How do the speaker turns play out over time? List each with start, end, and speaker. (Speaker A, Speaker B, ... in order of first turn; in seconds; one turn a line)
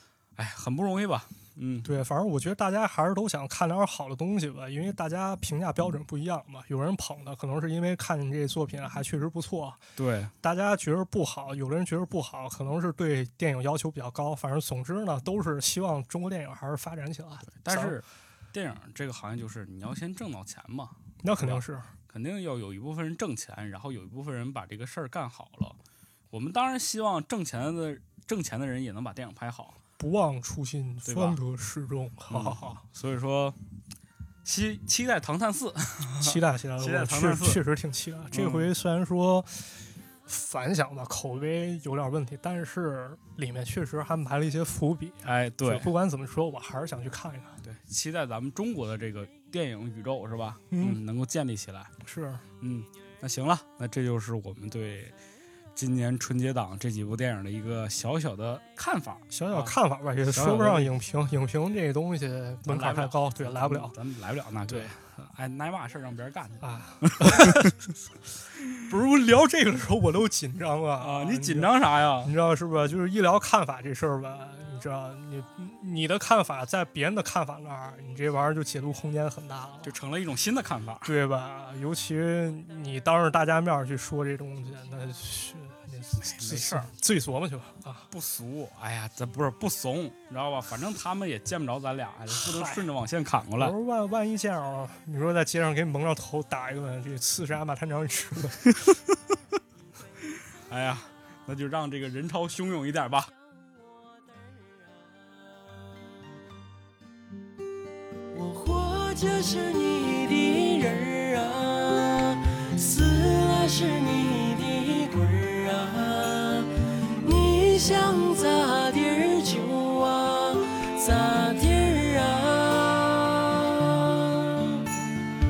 Speaker A: 0.3-1.9
Speaker B: 1.8-9.8
Speaker A: 10.0-10.3
Speaker B: 10.4-17.9
Speaker A: 17.5-25.8
Speaker B: 21.2-21.9
Speaker A: 26.3-29.8
Speaker B: 30.0-32.8
Speaker A: 31.0-31.4
Speaker A: 32.3-33.6
Speaker A: 34.4-37.6
Speaker B: 36.2-47.6
Speaker A: 38.3-38.7
Speaker A: 45.2-45.9
Speaker A: 47.6-51.9
Speaker B: 50.7-51.0
Speaker B: 52.0-52.4
Speaker A: 52.6-55.2
Speaker A: 55.7-59.8
Speaker B: 59.3-63.9
Speaker A: 60.3-60.9
Speaker A: 62.6-66.6
Speaker B: 64.7-64.9
Speaker B: 66.6-67.8
Speaker A: 67.2-67.6
Speaker B: 68.8-79.9
Speaker A: 71.0-72.3
Speaker A: 79.8-81.1
Speaker B: 81.0-88.1
Speaker A: 86.2-86.9
Speaker A: 88.1-93.7
Speaker B: 92.3-92.8
Speaker B: 93.6-98.7
Speaker A: 100.7-103.3
Speaker C: 103.5-105.9
Speaker C: 108.3-124.9